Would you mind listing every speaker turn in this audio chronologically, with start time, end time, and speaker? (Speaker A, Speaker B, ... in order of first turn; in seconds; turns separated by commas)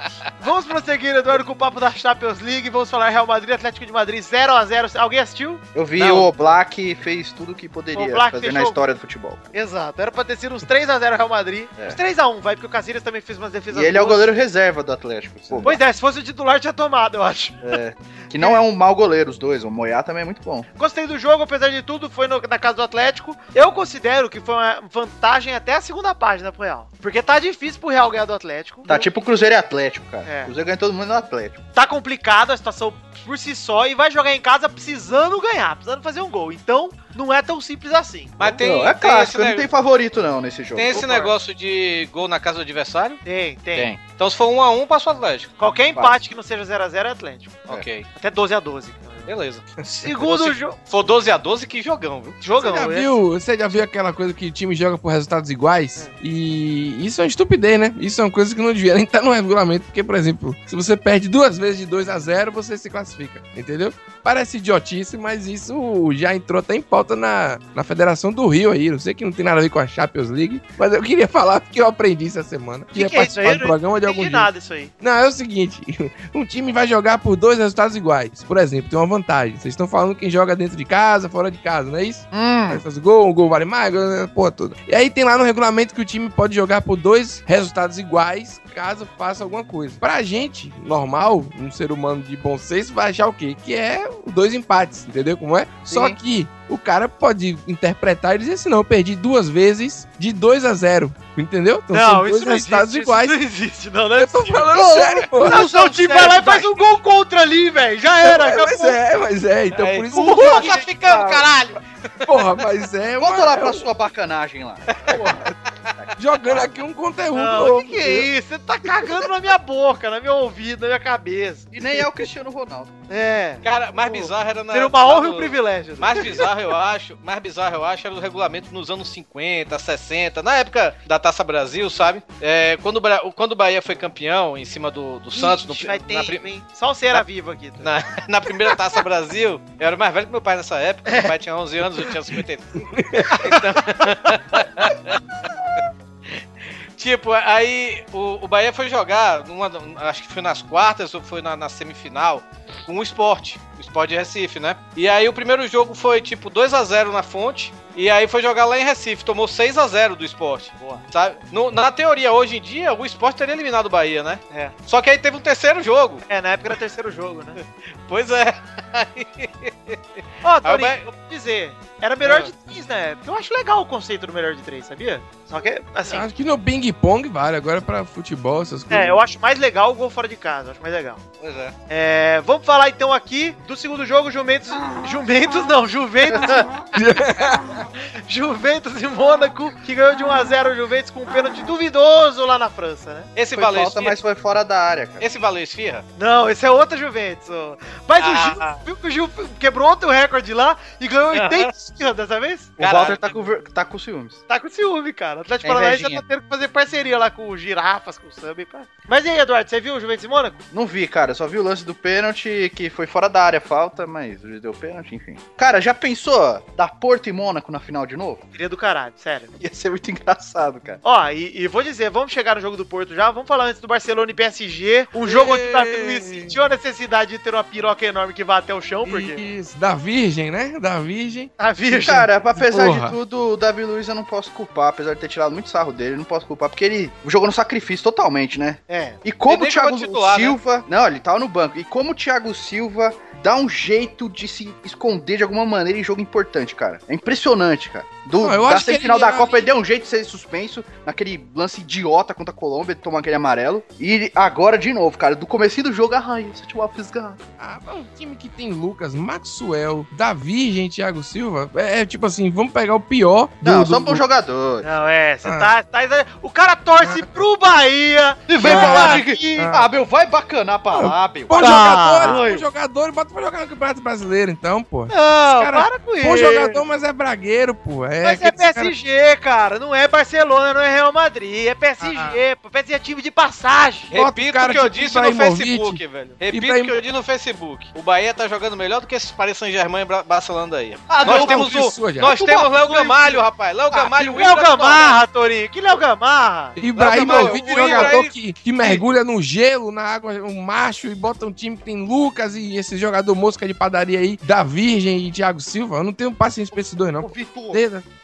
Speaker A: 0.4-6.3, Speaker B: 5.7-9.5, Speaker A: 7.9-8.8, Speaker A: 9.5-14.2, Speaker B: 13.7-15.8, Speaker A: 15.6-17.8, Speaker B: 17.6-20.7, Speaker A: 20.8-29.1, Speaker B: 28.9-31.6, Speaker A: 30.2-30.5, Speaker A: 31.7-38.6, Speaker C: 38.4-39.7, Speaker B: 38.4-41.3, Speaker C: 40.7-43.2, Speaker A: 43.2-43.9, Speaker B: 43.7-44.0, Speaker C: 44.2-45.5, Speaker A: 45.6-49.3, Speaker B: 45.9-46.2, Speaker C: 47.7-48.0, Speaker C: 49.3-52.4, Speaker A: 50.0-50.8, Speaker A: 52.4-53.2, Speaker D: 52.6-103.4, Speaker A: 72.9-74.9, Speaker B: 82.3-82.8, Speaker B: 95.9-96.2, Speaker A: 101.9-109.0, Speaker D: 104.2-105.6, Speaker B: 105.4-106.7, Speaker D: 108.2-110.7, Speaker A: 109.7-110.8, Speaker C: 110.3-112.3, Speaker B: 110.8-111.4, Speaker D: 112.2-113.8, Speaker B: 113.2-115.3, Speaker D: 116.2-118.3, Speaker A: 117.3-121.7, Speaker D: 118.9-119.2, Speaker B: 121.7-122.9, Speaker A: 123.1-126.4, Speaker C: 123.6-136.4, Speaker A: 135.3-137.9, Speaker C: 137.8-145.2, Speaker A: 141.1-141.3, Speaker D: 142.9-143.7, Speaker C: 147.0-166.2, Speaker A: 166.3-167.6, Speaker C: 168.1-170.0, Speaker A: 170.4-176.3, Speaker C: 170.6-171.0, Speaker C: 172.2-172.5, Speaker D: 176.1-179.2, Speaker A: 178.9-181.2, Speaker C: 181.4-181.7, Speaker A: 181.9-186.7, Speaker B: 186.3-186.6, Speaker D: 186.9-187.8, Speaker A: 188.2-193.3, Speaker C: 193.3-194.2, Speaker B: 193.5-195.2, Speaker C: 195.2-196.0, Speaker A: 196.2-202.7, Speaker C: 198.2-198.8, Speaker C: 201.3-201.7, Speaker C: 202.8-203.4, Speaker B: 202.8-204.4, Speaker A: 204.5-210.6, Speaker B: 205.6-206.2, Speaker B: 210.7-218.4, Speaker A: 218.5-219.5, Speaker B: 219.6-221.0, Speaker A: 221.0-229.4, Speaker D: 225.2-226.6, Speaker D: 229.0-231.5, Speaker A: 231.6-232.3, Speaker B: 231.9-257.4, Speaker D: 232.5-233.2, Speaker A: 238.9-239.2, Speaker C: 239.5-240.6, Speaker D: 248.4-249.7, Speaker D: 257.6-264.2, Speaker B: 263.6-264.9, Speaker A: 264.8-269.7, Speaker D: 265.4-265.7, Speaker D: 267.0-267.4, Speaker B: 268.5-272.4, Speaker D: 268.6-269.9, Speaker D: 270.9-278.9, Speaker A: 271.5-272.6, Speaker A: 275.1-276.8, Speaker A: 278.2-284.1, Speaker D: 282.0-282.4, Speaker C: 284.1-295.2, Speaker D: 284.1-287.0, Speaker B: 291.1-294.5, Speaker D: 291.2-292.3, Speaker A: 294.3-296.8, Speaker D: 296.8-308.0, Speaker B: 296.9-298.1, Speaker C: 297.1-298.3, Speaker A: 307.2-307.8